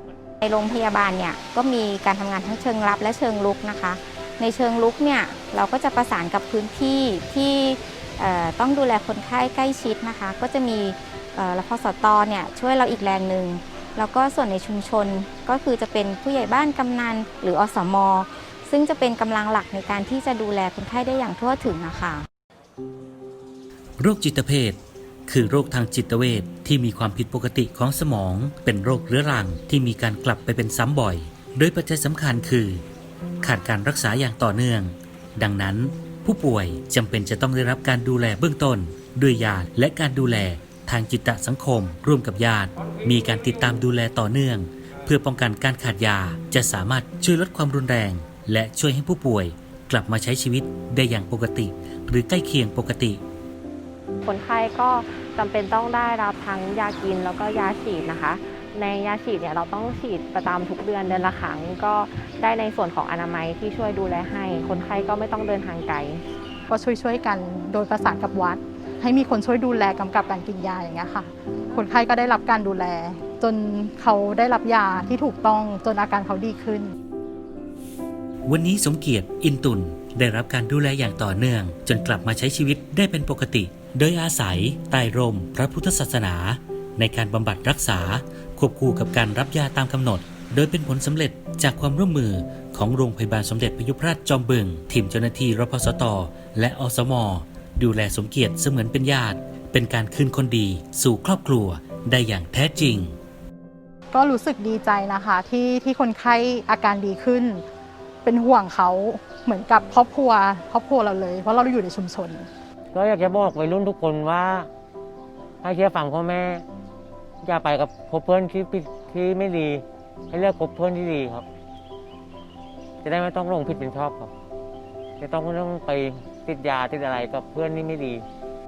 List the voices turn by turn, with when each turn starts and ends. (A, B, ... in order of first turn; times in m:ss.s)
0:00.4-0:22.2 A
0:24.0-0:32.8 B
0:33.4-0:53.2 B
0:54.2-1:06.2 C
1:06.7-1:16.9 D
1:18.4-1:43.2 B
1:44.1-1:47.6 D
1:48.2-1:52.5 D
1:52.9-1:54.7 E
1:55.6-1:56.6 E
1:57.4-2:01.4 E
2:03.0-2:04.3 E
2:05.2-2:08.2 E